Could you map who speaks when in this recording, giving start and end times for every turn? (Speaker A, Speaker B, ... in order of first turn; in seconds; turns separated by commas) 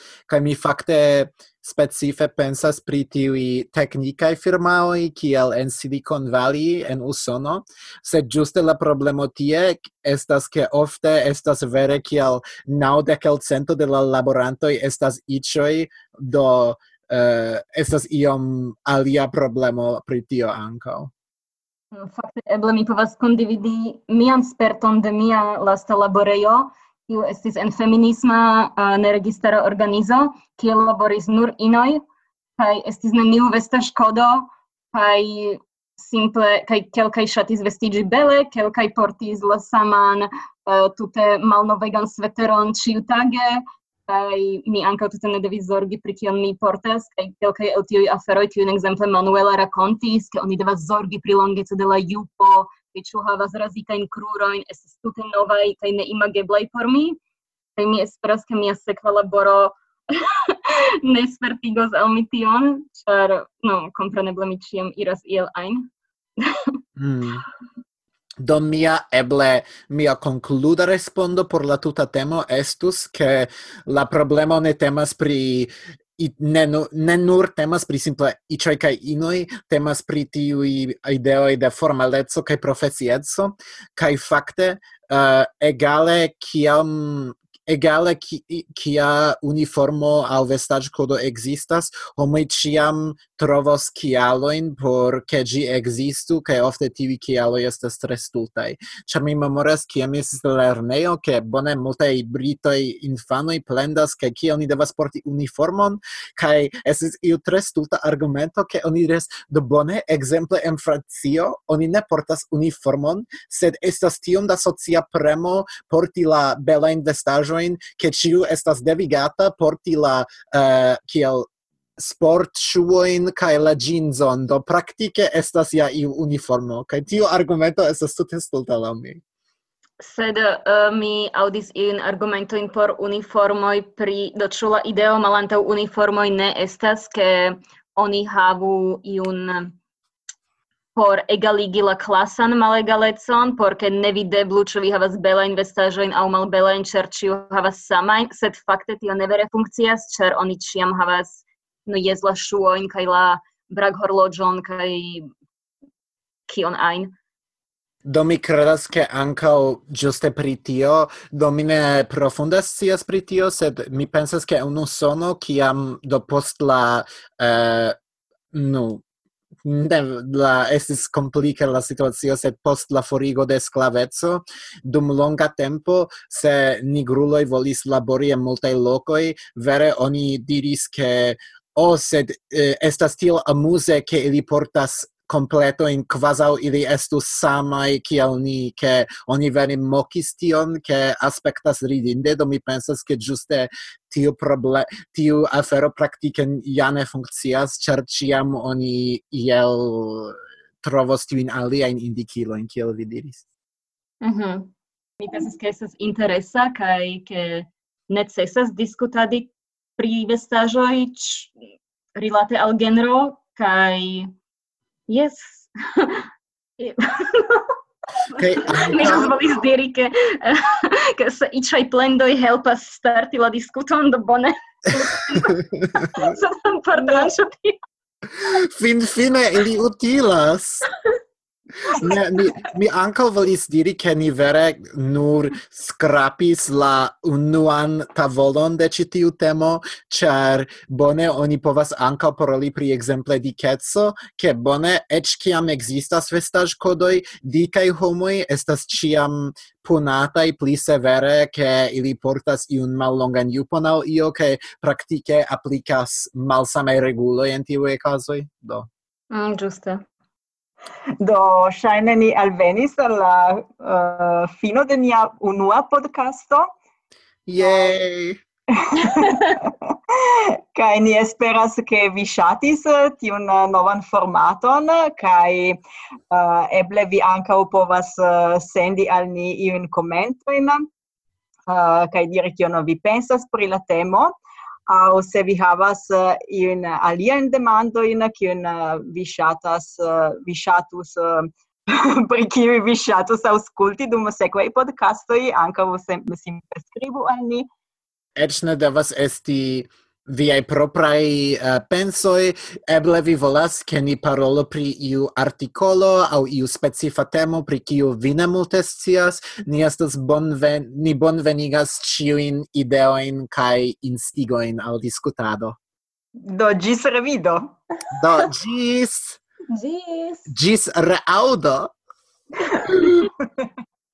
Speaker A: 0.3-21.1, Speaker B: 21.9-32.0, Speaker B: 32.6-57.2, Speaker B: 57.8-66.8, Speaker A: 67.0-67.5, Speaker A: 68.4-129.2, Speaker B: 130.0-139.7, Speaker B: 140.9-155.3, Speaker B: 156.5-157.1, Speaker A: 158.1-168.0, Speaker A: 168.5-169.0, Speaker A: 169.6-203.4, Speaker B: 204.2-211.5, Speaker B: 212.2-214.3, Speaker B: 215.1-217.8, Speaker B: 218.3-227.8, Speaker A: 218.3-219.3, Speaker A: 225.5-226.3, Speaker A: 228.3-230.9, Speaker A: 231.8-258.9, Speaker B: 259.3-260.0, Speaker C: 261.2-266.7, Speaker A: 267.5-268.4, Speaker C: 267.6-267.9, Speaker C: 268.7-280.8, Speaker C: 281.7-284.4, Speaker C: 284.9-297.7, Speaker A: 298.4-315.8, Speaker C: 316.4-317.8, Speaker A: 318.1-319.4, Speaker B: 319.7-320.5, Speaker A: 320.5-321.9, Speaker C: 322.6-323.7